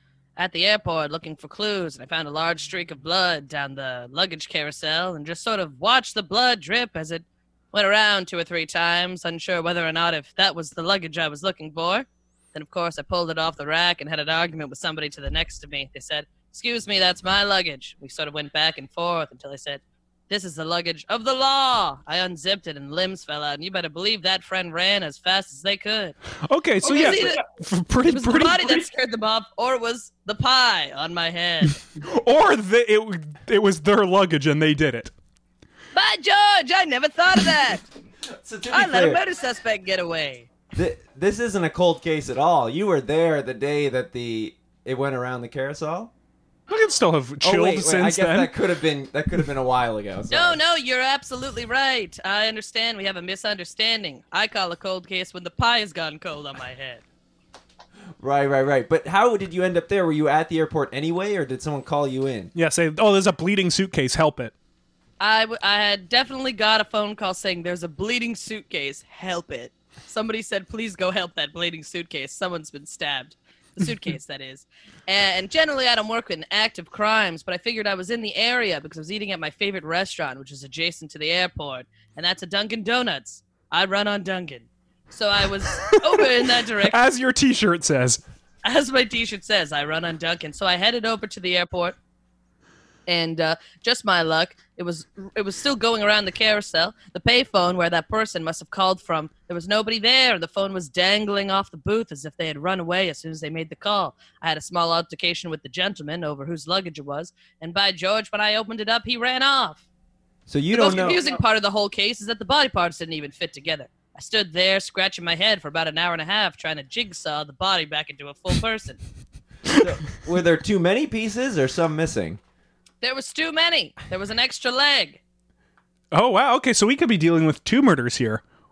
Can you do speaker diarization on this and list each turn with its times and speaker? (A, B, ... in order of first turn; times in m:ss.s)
0:00.4-0:26.2 A
0:26.4-0:28.8 B
0:26.8-0:27.4 A
0:28.0-0:31.8 A
0:32.0-0:35.1 B
0:35.9-0:37.8 A
0:38.4-0:39.2 C
0:38.7-0:40.5 A
0:40.7-0:46.1 C
0:46.7-0:48.6 B
0:47.4-0:50.6 C
0:50.3-0:57.0 A
0:58.2-1:02.5 C
1:02.5-1:04.5 B
1:05.2-1:27.0 A
1:25.8-1:26.2 B
1:26.8-1:28.2 B
1:28.6-1:32.0 A
1:33.1-1:49.8 A
1:50.5-1:51.2 C
1:50.7-1:59.0 A
1:59.7-2:02.4 C
2:03.0-2:05.2 A
2:06.1-2:08.4 B